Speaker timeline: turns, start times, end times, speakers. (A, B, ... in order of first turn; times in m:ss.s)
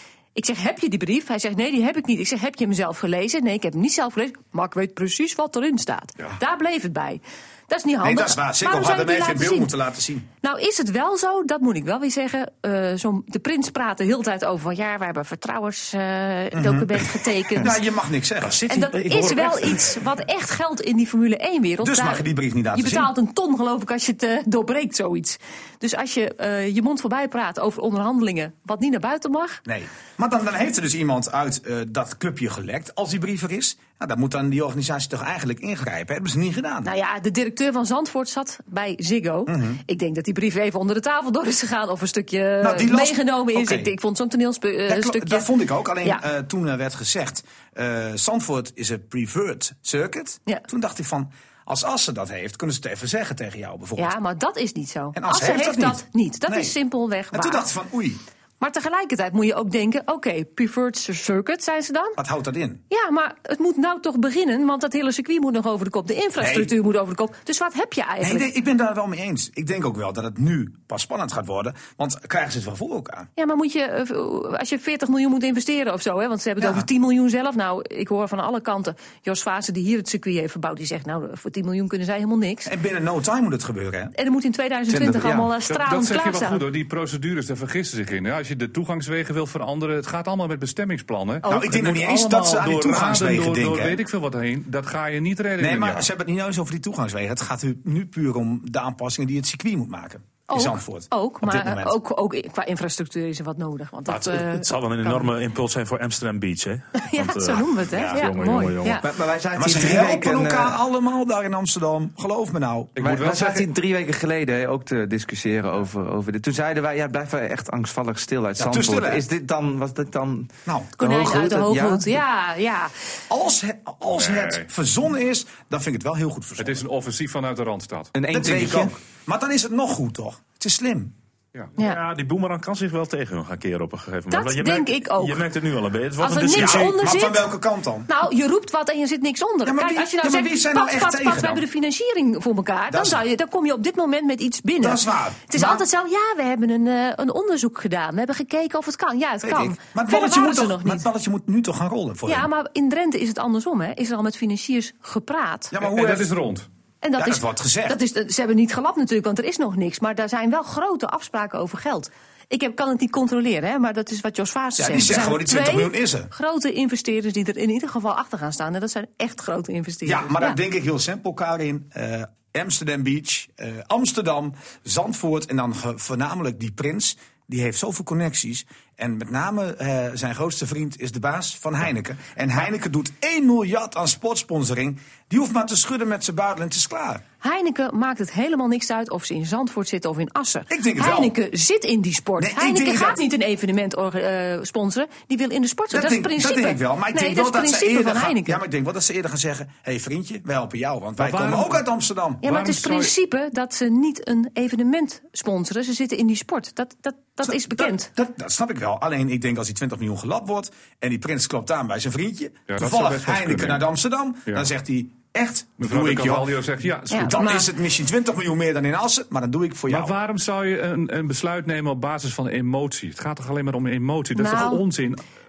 0:00.3-0:09.7 A
0:08.0-0:10.3 B
0:10.4-0:17.8 A
0:16.5-0:18.6 B
0:18.4-0:20.0 C
0:18.6-0:29.6 A
0:21.8-0:23.1 B
0:29.6-0:36.9 B
0:36.8-0:45.5 A
0:39.5-0:39.8 B
0:42.6-0:43.9 B
0:44.9-0:54.1 B
0:54.0-0:57.7 A
0:55.2-0:56.7 B
0:57.3-0:58.2 B
0:58.6-1:02.2 A
1:02.2-1:02.8 B
1:02.9-1:08.5 A
1:06.4-1:06.7 B
1:08.2-1:13.3 B
1:13.4-1:22.7 A
1:16.6-1:16.8 B
1:22.6-1:24.1 B
1:24.1-1:26.6 A
1:24.9-1:25.5 D
1:25.7-1:36.1 E
1:31.4-1:31.9 A
1:31.4-1:34.0 B
1:35.6-1:42.0 B
1:40.5-1:45.3 A
1:44.1-1:49.0 C
1:46.9-1:49.1 A
1:47.9-1:48.3 B
1:49.0-1:50.8 D
1:49.6-1:53.0 B
1:53.0-1:53.7 E
1:53.0-2:02.2 D
1:58.6-1:59.2 B
2:00.6-2:01.0 B
2:01.0-2:02.9 A
2:03.3-2:06.8 B
2:04.1-2:04.7 E
2:06.6-2:08.1 E
2:08.1-2:08.9 D
2:08.3-2:11.1 B
2:11.8-2:17.0 C
2:14.3-2:15.4 A
2:16.2-2:17.5 A
2:16.5-2:18.1 B
2:18.1-2:31.0 A
2:19.6-2:21.6 B
2:22.9-2:23.2 B
2:24.8-2:25.8 B
2:29.4-2:32.5 B
2:32.3-2:35.7 A
2:35.7-2:36.3 B
2:35.8-2:36.7 E
2:37.0-2:50.6 A
2:37.2-2:38.0 B
2:44.8-2:46.3 B
2:50.0-3:07.2 B
3:07.4-3:18.6 A
3:10.7-3:11.3 B
3:12.4-3:13.2 B
3:15.9-3:22.4 B
3:21.2-3:21.8 E
3:22.4-3:23.1 E
3:22.4-3:28.1 A
3:27.4-3:36.5 B
3:32.7-3:33.8 E
3:35.8-3:37.5 E
3:37.1-3:37.7 A
3:37.1-3:40.1 B
3:39.9-3:45.2 E
3:44.3-3:44.8 A